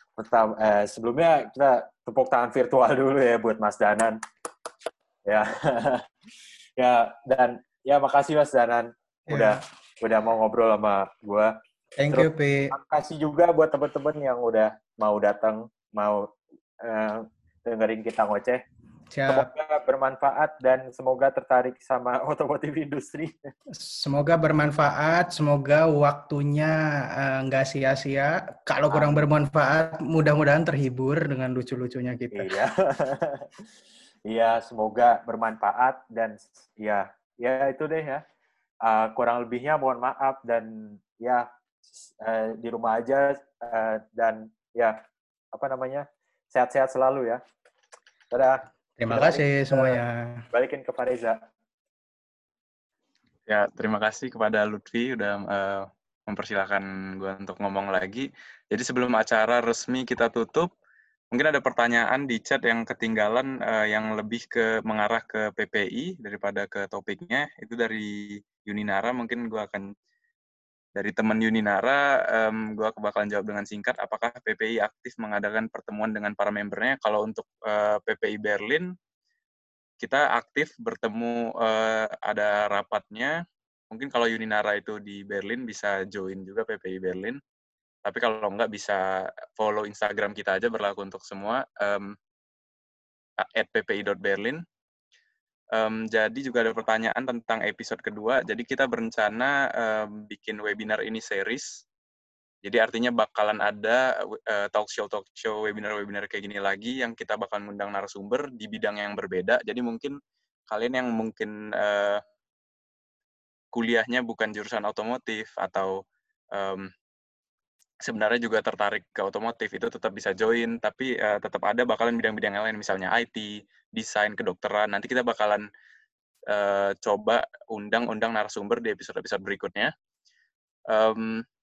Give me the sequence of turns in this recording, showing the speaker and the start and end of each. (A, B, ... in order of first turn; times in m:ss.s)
0:00.2-0:04.2 A
0:05.2-0:06.0 A
0:06.8-0:11.5 A
0:09.3-0:09.6 B
0:12.0-0:12.7 B
0:12.1-0:18.6 A
0:19.1-0:19.5 B
0:19.3-0:23.5 A
0:23.7-0:32.5 B
0:28.9-0:29.3 A
0:32.3-0:33.6 A
0:34.3-0:38.2 A
0:38.8-0:45.0 A
0:45.5-0:47.4 A
0:48.3-0:50.0 A
0:49.0-0:50.4 B
0:50.5-0:51.4 A
0:53.5-1:00.7 C
1:01.3-1:09.9 C
1:10.9-1:18.9 C
1:20.0-1:23.4 C
1:23.9-1:27.4 C
1:28.0-1:32.2 C
1:33.4-1:34.6 C
1:35.7-1:41.8 C
1:42.6-1:50.2 C
1:50.7-1:52.2 C
1:53.7-1:56.0 C
1:56.5-1:56.9 C
1:58.0-2:05.7 C
2:06.5-2:09.9 C
2:10.9-2:11.4 C